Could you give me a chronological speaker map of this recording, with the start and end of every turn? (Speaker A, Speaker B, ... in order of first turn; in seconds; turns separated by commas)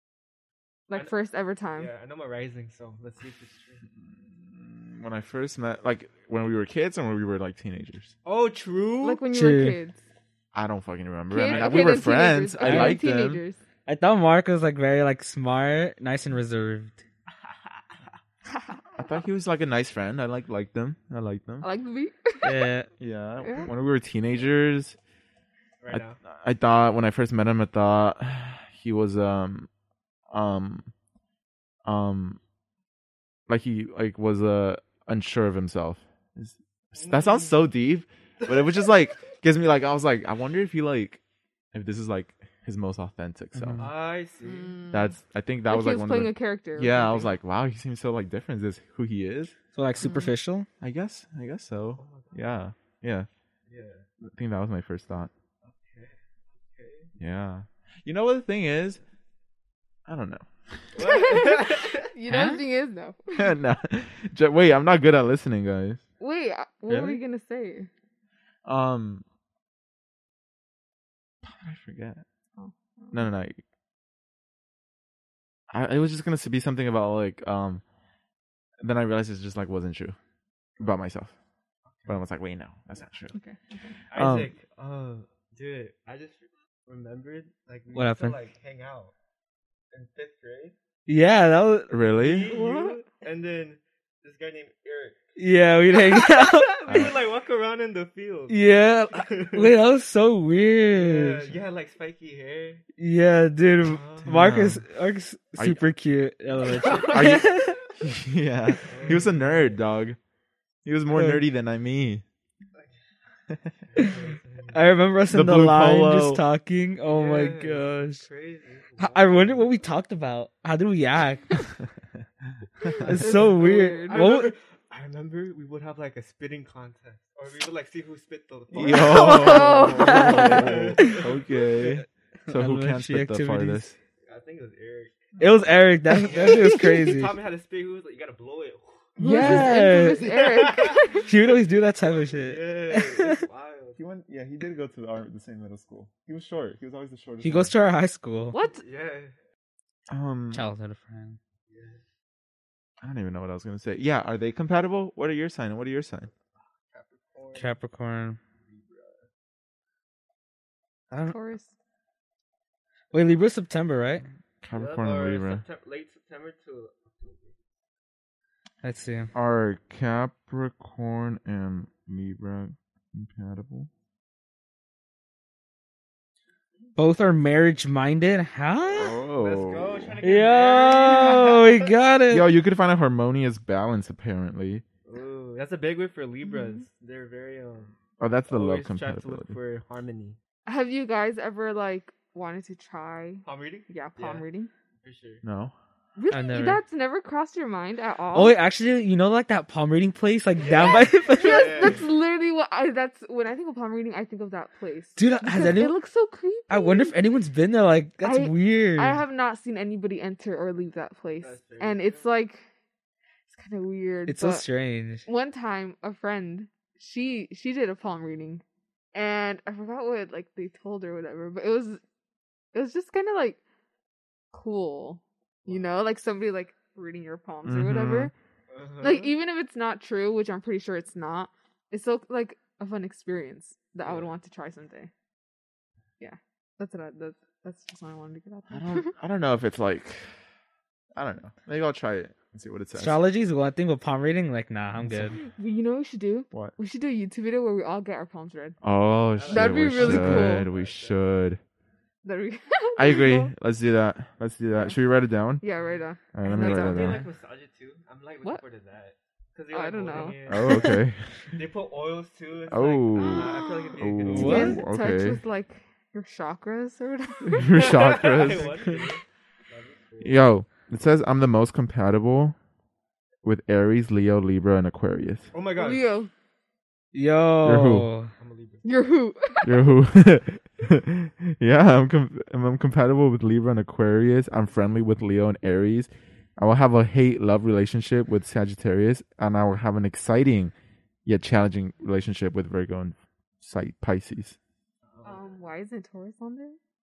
Speaker A: 0.9-1.9, Speaker B: 1.8-3.9, Speaker C: 4.2-8.1, Speaker B: 8.2-9.2, Speaker A: 9.0-10.0, Speaker D: 9.3-9.8, Speaker C: 10.5-13.4, Speaker A: 11.3-13.6, Speaker B: 11.4-12.0, Speaker D: 12.6-13.0, Speaker D: 13.9-17.0, Speaker C: 19.0-21.7, Speaker A: 21.6-22.7, Speaker D: 22.4-22.9, Speaker C: 23.0-25.0, Speaker A: 23.4-23.7, Speaker B: 25.8-26.2, Speaker C: 25.9-29.7, Speaker C: 30.3-30.9, Speaker C: 31.9-32.4, Speaker C: 33.5-41.2, Speaker B: 37.0-37.6, Speaker B: 38.4-39.0, Speaker C: 41.7-43.9, Speaker D: 43.5-43.9, Speaker B: 43.8-44.8, Speaker A: 44.5-47.3, Speaker C: 44.9-49.5, Speaker D: 49.8-50.7, Speaker A: 50.0-50.3, Speaker C: 50.8-53.3, Speaker B: 52.0-52.6, Speaker B: 53.7-54.1, Speaker C: 54.2-55.3, Speaker B: 55.6-57.1, Speaker C: 57.2-59.0, Speaker C: 60.1-60.9, Speaker B: 60.9-62.1, Speaker A: 61.0-63.5, Speaker D: 62.3-62.6, Speaker C: 63.4-66.0, Speaker A: 66.2-67.9, Speaker C: 68.7-69.2, Speaker C: 71.4-72.2, Speaker A: 72.6-73.3, Speaker C: 73.1-73.6, Speaker C: 75.7-77.8, Speaker C: 78.8-80.2, Speaker C: 80.8-81.3, Speaker B: 81.9-82.2, Speaker C: 82.1-83.4, Speaker A: 83.3-83.9, Speaker B: 84.1-89.1, Speaker C: 84.1-84.5, Speaker D: 87.9-88.4, Speaker B: 89.9-90.8, Speaker D: 91.1-92.0, Speaker C: 91.9-92.5, Speaker B: 92.2-95.2, Speaker A: 92.5-93.0, Speaker D: 95.4-97.1, Speaker B: 95.9-99.7, Speaker D: 98.5-101.5, Speaker B: 100.9-102.8, Speaker D: 103.0-107.8, Speaker B: 103.8-104.4, Speaker C: 104.3-104.8, Speaker C: 105.6-105.9, Speaker B: 106.6-107.4, Speaker C: 107.0-110.2, Speaker B: 108.9-109.8, Speaker C: 110.8-112.2, Speaker D: 111.1-111.4, Speaker B: 113.9-114.8, Speaker D: 114.7-118.3, Speaker C: 115.3-116.4, Speaker B: 117.1-119.7, Speaker D: 119.0-121.6, Speaker D: 122.9-124.5, Speaker A: 123.1-124.3, Speaker B: 123.2-132.1, Speaker C: 128.7-134.0, Speaker A: 128.9-130.7, Speaker D: 129.9-131.2, Speaker D: 132.5-133.8, Speaker B: 134.3-135.4, Speaker D: 135.4-137.3, Speaker B: 136.1-139.7, Speaker A: 139.2-141.3, Speaker D: 139.2-140.3, Speaker B: 140.2-141.6, Speaker D: 141.2-143.4, Speaker B: 142.2-144.0, Speaker C: 144.0-147.7, Speaker D: 147.4-148.6, Speaker A: 148.5-148.8, Speaker B: 148.7-149.3, Speaker C: 150.1-150.7, Speaker D: 150.5-151.4, Speaker B: 151.7-152.0, Speaker C: 153.0-156.3, Speaker B: 156.6-157.8, Speaker D: 157.6-158.4, Speaker B: 158.6-159.3, Speaker A: 161.3-161.7, Speaker D: 163.1-164.2, Speaker C: 164.6-165.6, Speaker B: 164.8-167.6, Speaker D: 168.8-169.3, Speaker C: 169.3-173.9, Speaker D: 177.0-179.2, Speaker C: 178.9-180.2, Speaker B: 179.3-181.9, Speaker D: 180.2-182.5, Speaker C: 182.3-184.8, Speaker B: 185.1-187.9, Speaker C: 188.2-189.6, Speaker B: 188.5-190.4, Speaker A: 190.7-194.7, Speaker B: 193.4-194.4, Speaker B: 195.0-195.4, Speaker C: 195.4-195.8, Speaker A: 196.2-198.6, Speaker D: 196.3-196.8, Speaker D: 198.3-202.0, Speaker B: 200.6-202.1, Speaker A: 200.7-207.2, Speaker D: 205.2-205.9, Speaker D: 206.7-209.2, Speaker A: 208.2-212.6, Speaker B: 211.4-212.3, Speaker A: 213.5-214.7, Speaker D: 214.3-215.3, Speaker A: 215.3-218.6, Speaker A: 219.1-222.0, Speaker A: 222.7-223.6, Speaker A: 224.5-228.3, Speaker C: 227.7-228.3, Speaker B: 228.7-229.3, Speaker A: 229.0-235.1, Speaker B: 234.0-234.3, Speaker A: 236.2-239.1, Speaker C: 238.7-240.4, Speaker C: 241.2-243.2, Speaker D: 243.0-245.4, Speaker C: 245.1-245.3, Speaker A: 245.4-248.8, Speaker C: 248.8-251.6, Speaker B: 249.4-251.2, Speaker A: 249.5-250.7, Speaker A: 252.2-253.5, Speaker C: 253.0-255.6, Speaker A: 255.6-257.3, Speaker B: 255.8-260.9, Speaker C: 256.3-257.3, Speaker A: 259.7-260.4, Speaker C: 260.5-261.5, Speaker D: 260.6-261.0, Speaker B: 261.5-264.8, Speaker C: 262.7-265.4, Speaker A: 263.2-268.2, Speaker D: 264.3-264.8, Speaker C: 267.5-268.8, Speaker B: 267.7-270.4, Speaker C: 270.2-272.6, Speaker C: 273.4-275.5, Speaker B: 275.5-276.0, Speaker A: 275.8-276.3, Speaker D: 277.1-278.3, Speaker C: 277.6-278.1, Speaker B: 278.4-278.9, Speaker A: 278.8-279.9, Speaker C: 279.6-290.7, Speaker C: 291.3-294.6, Speaker B: 295.1-295.4, Speaker A: 295.2-296.8